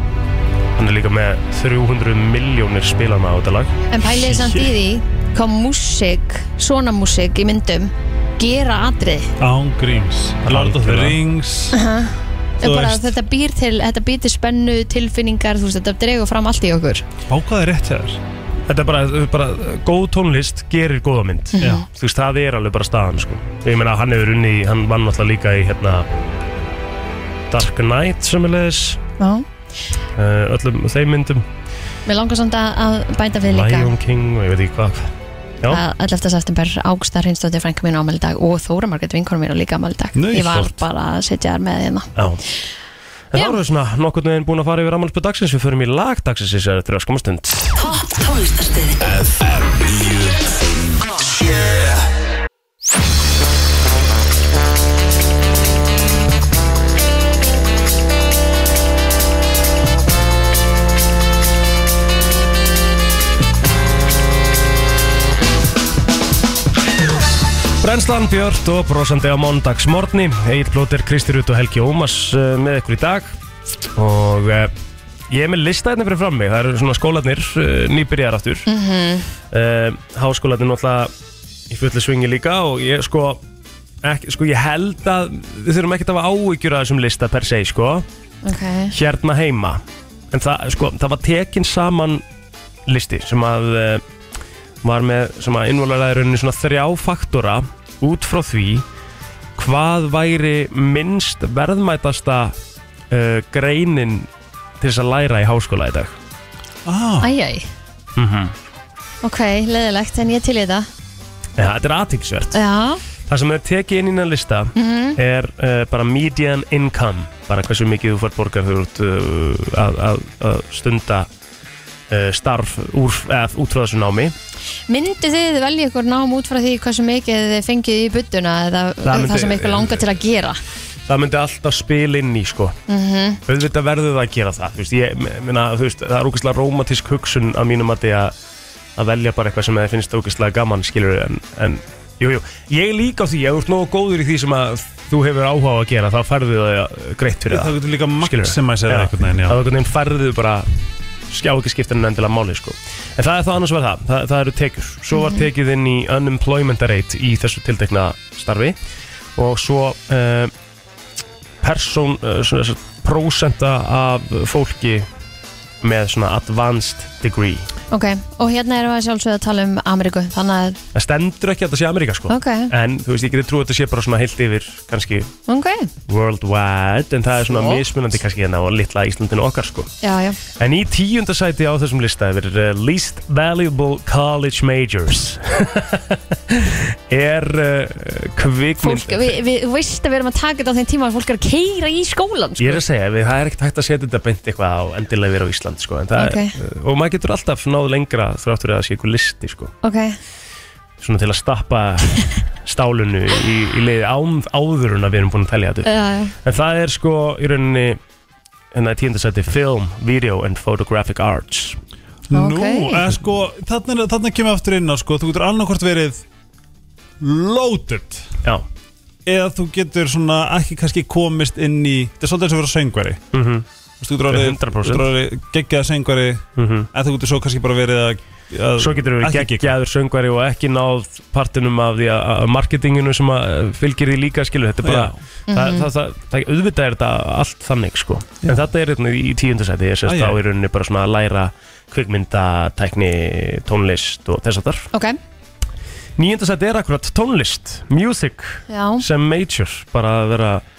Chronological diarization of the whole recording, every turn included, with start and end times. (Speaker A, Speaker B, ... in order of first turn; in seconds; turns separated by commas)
Speaker A: 0.8-3.7, Speaker B: 3.9-9.3, Speaker C: 4.0-4.7, Speaker C: 9.4-11.8, Speaker A: 10.4-11.2, Speaker B: 11.7-17.0, Speaker C: 12.6-13.1, Speaker C: 17.3-18.2, Speaker A: 18.7-26.1, Speaker B: 21.6-21.9, Speaker A: 27.5-29.0, Speaker B: 29.2-29.4, Speaker A: 30.1-31.4, Speaker B: 32.0-33.9, Speaker A: 33.5-35.8, Speaker B: 35.7-42.1, Speaker C: 40.1-40.8, Speaker A: 42.1-42.4, Speaker A: 43.3-47.8, Speaker D: 49.0-52.1, Speaker A: 67.8-73.3, Speaker A: 73.9-74.7, Speaker A: 75.3-78.7, Speaker B: 78.7-79.3, Speaker A: 79.5-81.1, Speaker A: 81.7-83.4, Speaker A: 84.0-88.0, Speaker B: 88.4-88.9, Speaker A: 88.9-92.2, Speaker A: 92.9-94.0, Speaker A: 94.8-98.8, Speaker A: 99.6-102.5, Speaker A: 103.1-104.3, Speaker A: 104.8-106.1, Speaker C: 106.8-107.3, Speaker B: 107.2-107.7, Speaker A: 108.2-108.5, Speaker B: 109.2-110.9, Speaker A: 111.6-112.6, Speaker B: 112.5-113.0, Speaker A: 113.3-121.3, Speaker B: 114.8-115.2, Speaker A: 122.1-124.3, Speaker B: 124.9-130.6, Speaker A: 129.0-130.0, Speaker A: 131.1-132.8, Speaker B: 132.9-133.4, Speaker A: 133.4-138.3, Speaker A: 138.9-150.7, Speaker C: 147.5-149.6, Speaker A: 151.3-158.8, Speaker B: 155.1-155.4, Speaker A: 159.3-160.5, Speaker A: 161.6-165.1, Speaker A: 165.8-167.7, Speaker B: 167.9-170.8, Speaker A: 170.9-175.3, Speaker B: 172.3-172.7, Speaker B: 175.5-175.9, Speaker A: 176.1-179.9, Speaker B: 177.5-177.8, Speaker B: 180.0-180.4, Speaker A: 180.6-189.4, Speaker B: 188.8-192.8, Speaker A: 192.6-199.7, Speaker B: 196.2-196.5, Speaker B: 199.8-200.2, Speaker A: 201.0-208.0, Speaker B: 205.8-206.3, Speaker A: 208.7-211.8, Speaker C: 212.3-216.2, Speaker B: 212.3-213.1, Speaker C: 217.2-218.3, Speaker C: 219.2-223.2, Speaker A: 223.3-223.7, Speaker C: 224.0-229.7, Speaker A: 224.3-225.1, Speaker A: 226.6-226.9, Speaker A: 228.8-244.9, Speaker C: 234.8-235.2, Speaker B: 235.5-235.9, Speaker C: 240.0-240.4, Speaker B: 244.9-245.2, Speaker A: 246.2-250.6, Speaker B: 248.7-249.0